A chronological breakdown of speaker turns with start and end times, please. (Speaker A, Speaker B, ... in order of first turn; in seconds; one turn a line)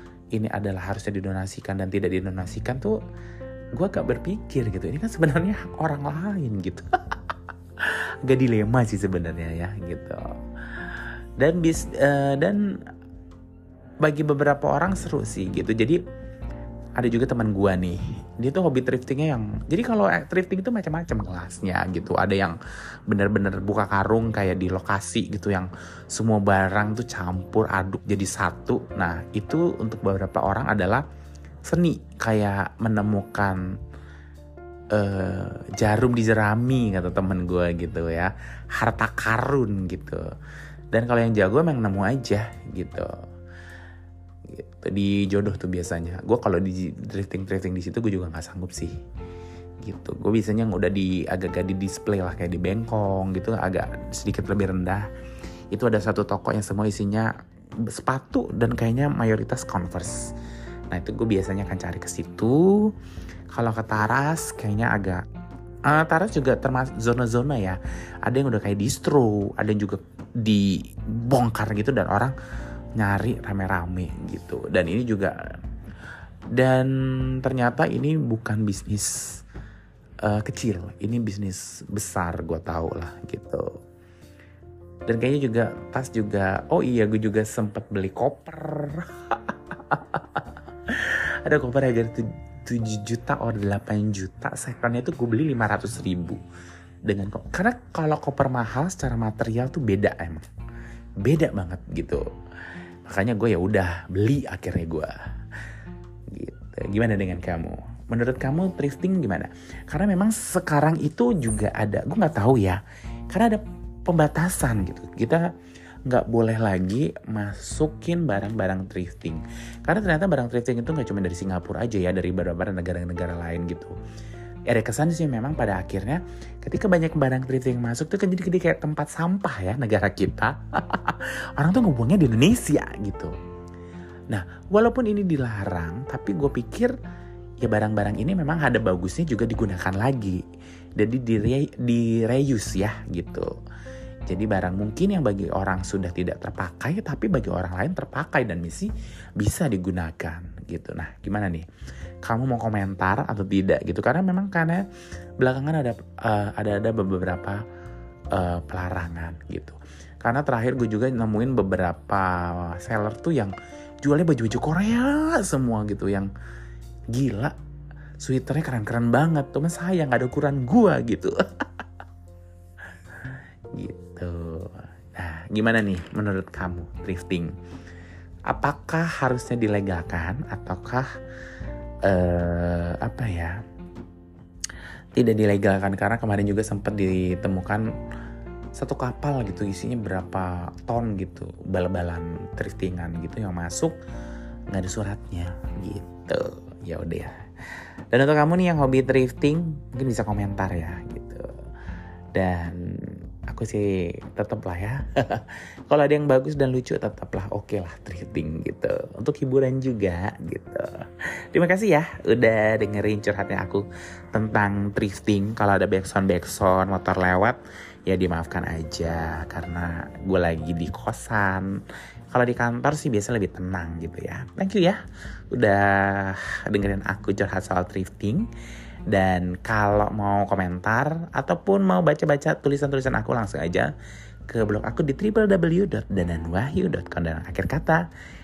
Speaker A: 0.3-3.0
Speaker A: 3.7-10.2
Speaker A: 10.8-12.6
Speaker A: 14.0-16.0
Speaker A: 17.0-22.6
Speaker A: 23.1-31.0
Speaker A: 31.7-33.6
Speaker A: 34.9-40.2
Speaker A: 40.9-43.1
Speaker A: 44.5-48.9
Speaker A: 49.8-55.1
Speaker A: 55.7-60.3
Speaker A: 60.9-62.9
Speaker A: 63.5-65.2
Speaker A: 65.8-72.3
Speaker A: 73.0-75.3
Speaker A: 76.5-79.4
Speaker A: 80.2-83.8
Speaker A: 85.1-96.4
Speaker A: 97.0-100.4
Speaker A: 101.2-102.2
Speaker A: 103.0-105.1
Speaker A: 106.3-115.5
Speaker A: 116.1-124.0
Speaker A: 124.7-133.3
Speaker A: 134.3-136.9
Speaker A: 137.6-140.4
Speaker A: 141.0-143.5
Speaker A: 144.3-151.7
Speaker A: 152.2-154.8
Speaker A: 155.4-157.6
Speaker A: 158.3-166.3
Speaker A: 167.1-167.5
Speaker A: 168.2-171.7
Speaker A: 173.7-177.5
Speaker A: 178.5-181.1
Speaker A: 182.0-183.6
Speaker A: 185.2-187.9
Speaker A: 188.7-193.9
Speaker A: 194.7-197.3
Speaker A: 198.1-201.5
Speaker A: 202.3-221.7
Speaker A: 222.3-225.0
Speaker A: 225.5-228.5
Speaker A: 229.1-233.9
Speaker A: 234.5-238.1